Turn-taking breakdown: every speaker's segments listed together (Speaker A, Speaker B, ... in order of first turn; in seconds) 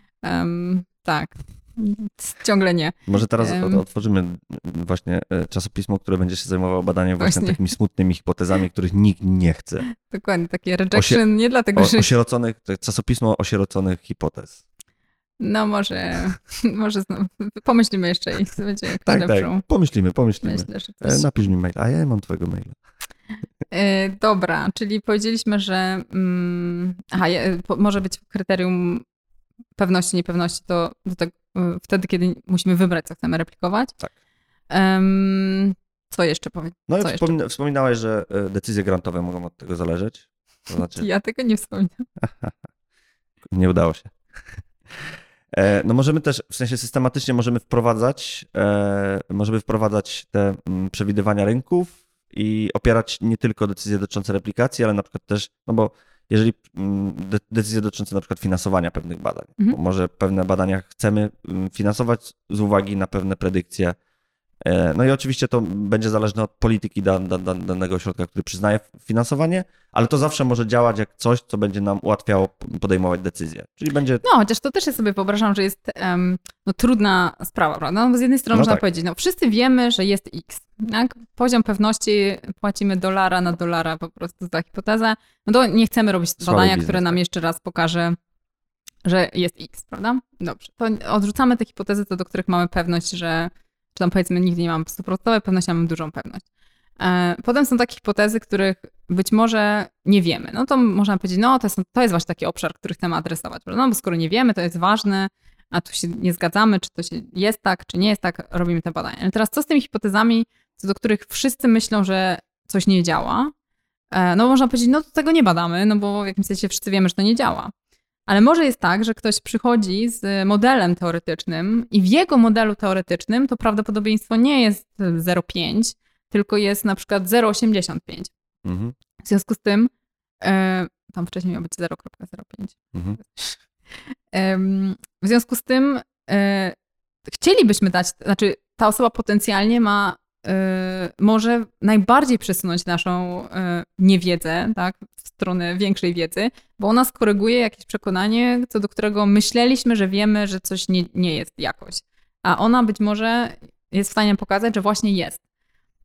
Speaker A: 0.2-3.8, 7.2-7.6, 10.0-12.1, 15.4-19.6, 20.4-21.3, 23.7-29.0, 29.8-33.9, 34.7-37.3, 40.7-42.1, 74.2-88.2, 89.0-96.4, 97.0-113.5, 114.1-117.7, 118.3-128.3, 129.2-129.9, 130.4-133.6, 134.3-136.8, 137.3-155.4
Speaker B: 3.1-9.8, 10.9-11.2, 11.8-14.6, 19.1-22.8, 36.9-41.1, 42.2-42.5, 43.5-44.1, 45.0-64.0, 64.6-74.2, 78.5-78.8, 86.4-87.2, 128.6-128.9